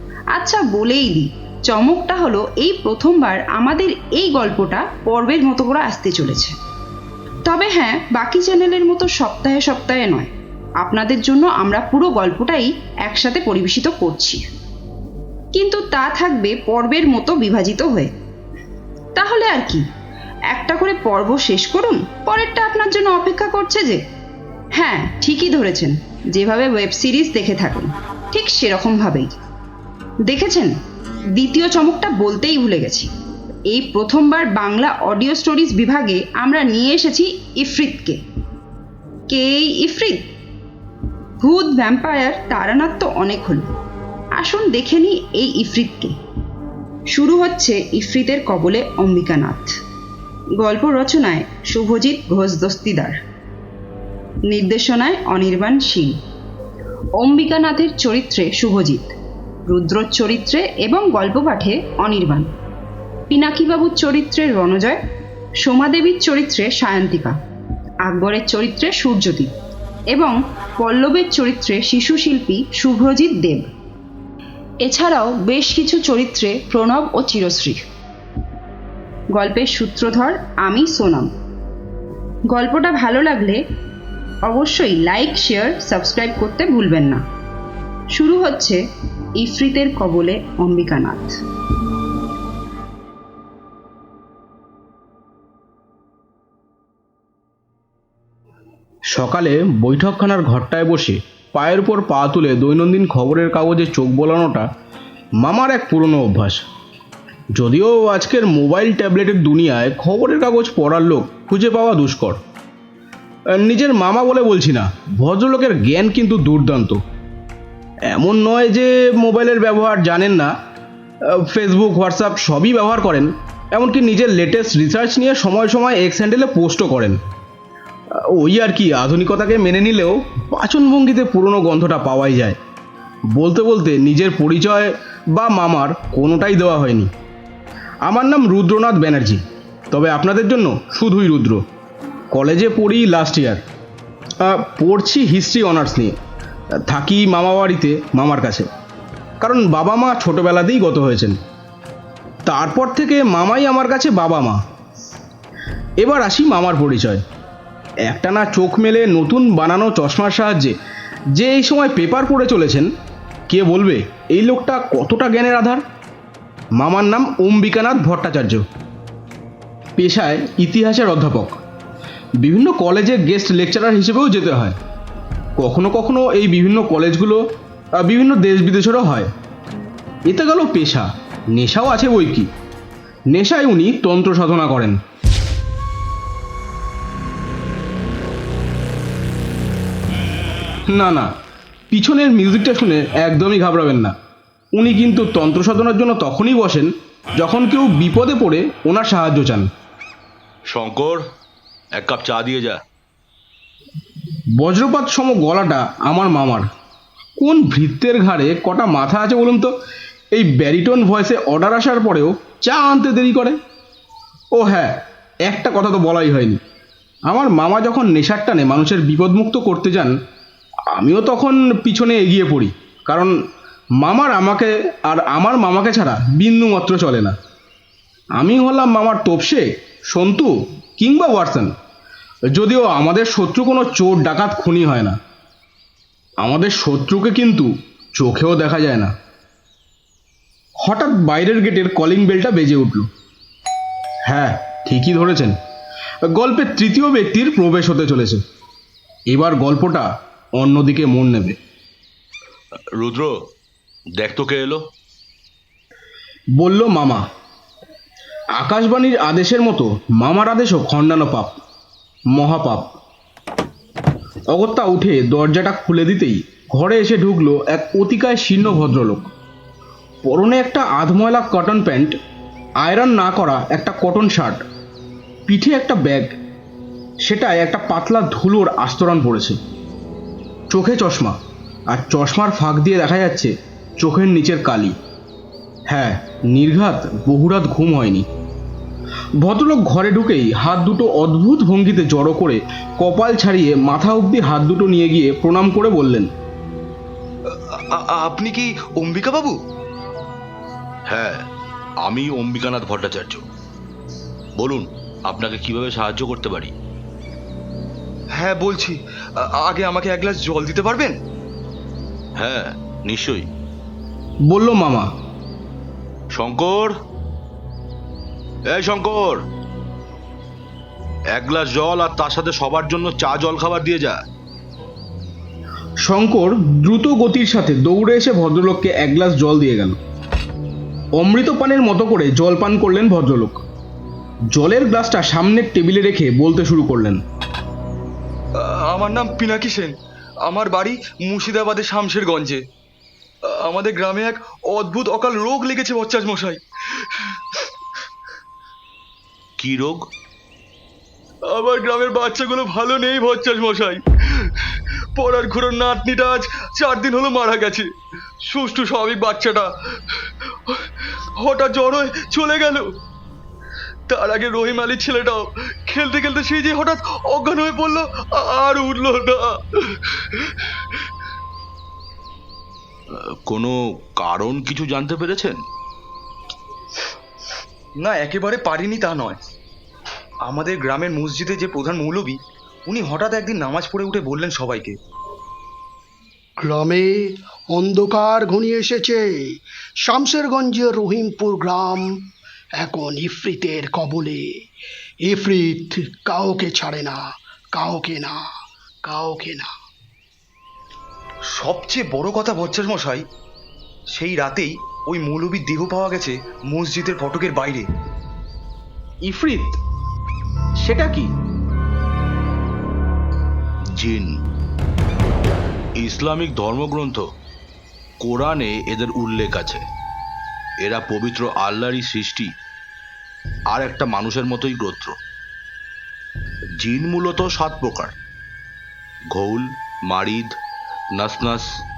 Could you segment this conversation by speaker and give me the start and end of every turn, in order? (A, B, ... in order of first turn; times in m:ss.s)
0:00.3-0:06.6 A
0:07.4-0:14.4 A
0:15.5-0:18.1 A
0:19.1-0:19.8 A
0:20.5-0:24.0 A
0:24.7-0:29.3 A
0:30.2-0:30.7 A
0:31.3-0:33.1 A
0:33.7-0:38.2 A
0:39.3-0:40.3 A
0:41.4-0:43.7 A
0:44.4-0:46.1 A
0:47.1-0:49.7 A
0:50.6-0:53.2 A
0:54.5-0:56.2 A
0:57.2-0:59.1 A
0:59.6-1:02.5 A
1:03.3-1:05.0 A
1:05.6-1:07.4 A
1:08.0-1:09.5 A
1:10.1-1:13.7 A
1:14.8-1:17.8 A
1:19.3-1:21.3 A
1:22.5-1:23.6 A
1:24.4-1:27.2 A
1:28.1-1:28.8 A
1:29.4-1:31.3 A
1:39.1-1:44.7 B
1:45.4-1:46.6 B
1:47.5-1:52.4 B
1:53.5-1:57.0 B
1:58.1-2:00.5 B
2:01.3-2:07.2 B
2:08.2-2:12.6 B
2:13.3-2:17.1 B
2:18.0-2:21.6 B
2:22.3-2:23.6 B
2:24.4-2:26.1 B
2:26.8-2:28.7 B
2:29.4-2:31.4 B
2:32.4-2:34.6 B
2:36.0-2:37.2 B
2:38.0-2:40.7 B
2:41.3-2:42.9 B
2:43.5-2:45.8 B
2:46.8-2:48.6 B
2:50.0-2:51.6 B
2:52.4-2:54.8 B
2:55.6-2:57.4 B
2:58.0-2:59.3 B
3:00.2-3:02.5 B
3:03.3-3:05.0 B
3:10.9-3:11.3 B
3:11.9-3:14.1 B
3:14.7-3:19.7 B
3:20.7-3:21.2 C
3:22.0-3:22.8 C
3:24.6-3:26.7 B
3:27.4-3:29.7 B
3:30.3-3:33.6 B
3:34.5-3:36.6 B
3:37.3-3:40.1 B
3:40.9-3:43.3 B
3:44.0-3:47.3 B
3:48.4-3:51.7 B
3:52.5-3:55.2 B
3:56.4-3:59.1 B
4:00.8-4:03.1 B
4:04.3-4:05.6 B
4:06.3-4:08.4 B
4:09.3-4:11.6 B
4:13.0-4:13.3 C
4:14.2-4:14.8 C
4:16.6-4:17.2 B
4:18.6-4:21.5 B
4:22.3-4:22.9 B
4:24.5-4:29.3 B
4:30.2-4:32.1 B
4:32.8-4:34.6 B
4:35.5-4:36.3 B
4:37.2-4:39.6 B
4:40.7-4:41.3 B
4:41.9-4:44.9 B
4:45.9-4:48.2 B
4:49.4-4:56.3 B
4:57.5-4:59.6 D
5:01.1-5:01.4 C
5:02.0-5:03.4 C
5:04.6-5:06.7 C
5:08.4-5:11.1 D
5:12.4-5:13.4 C
5:14.4-5:15.1 B
5:16.3-5:16.9 C
5:18.7-5:19.4 C
5:21.3-5:24.2 C
5:26.0-5:30.0 B
5:31.2-5:33.6 B
5:34.5-5:37.2 B
5:38.6-5:39.9 D
5:40.4-5:42.6 D
5:43.5-5:47.6 D
5:49.6-5:50.0 C
5:51.5-5:57.8 D
5:58.5-6:02.8 D
6:04.1-6:11.0 D
6:13.4-6:15.6 C
6:18.0-6:19.4 D
6:20.5-6:25.0 D
6:26.6-6:32.1 E
6:32.8-6:34.6 E
6:35.2-6:38.5 E
6:39.0-6:39.7 E
6:41.5-6:43.2 D
6:44.1-6:47.9 D
6:49.2-6:49.8 B
6:50.8-6:51.3 B
6:54.0-6:54.3 C
6:56.0-6:57.2 C
6:58.2-6:59.8 C
7:00.8-7:02.5 C
7:03.7-7:05.1 C
7:06.8-7:08.1 C
7:09.3-7:10.5 C
7:11.2-7:11.6 C